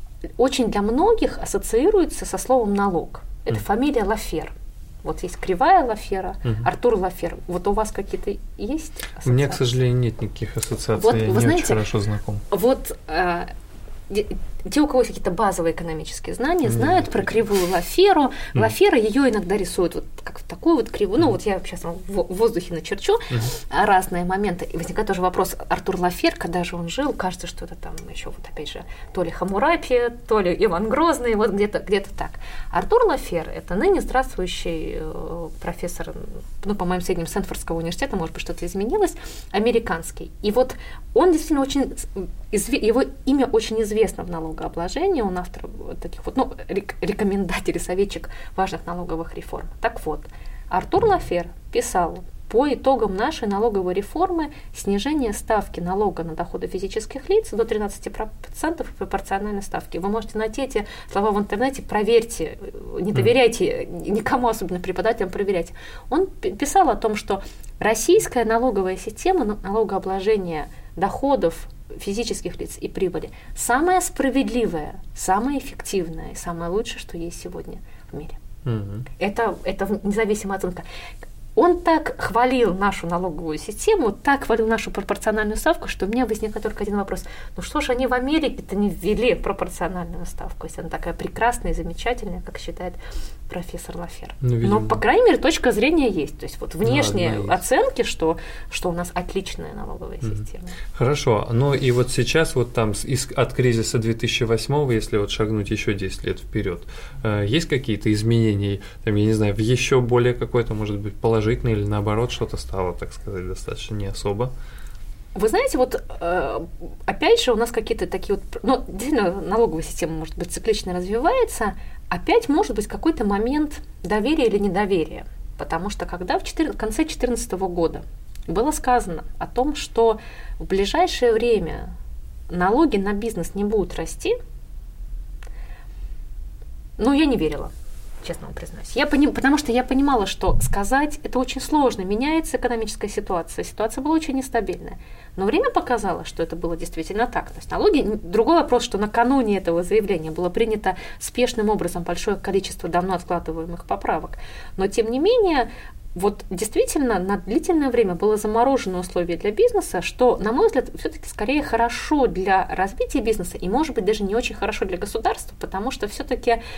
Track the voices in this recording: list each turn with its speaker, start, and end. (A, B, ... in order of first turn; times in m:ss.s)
0:00.4-0:09.6 A
0:09.2-0:12.4 B
0:11.0-0:11.8 A
0:12.5-0:13.5 A
0:14.1-1:18.4 A
0:16.7-0:17.1 B
1:18.6-1:19.1 B
1:19.2-1:20.8 A
1:21.6-1:33.0 A
1:33.5-1:40.8 A
1:34.4-1:35.0 B
1:36.8-1:37.6 B
1:40.9-1:54.5 B
1:55.3-2:11.9 A
2:12.5-2:14.4 A
2:17.0-2:17.7 A
2:18.2-2:46.6 A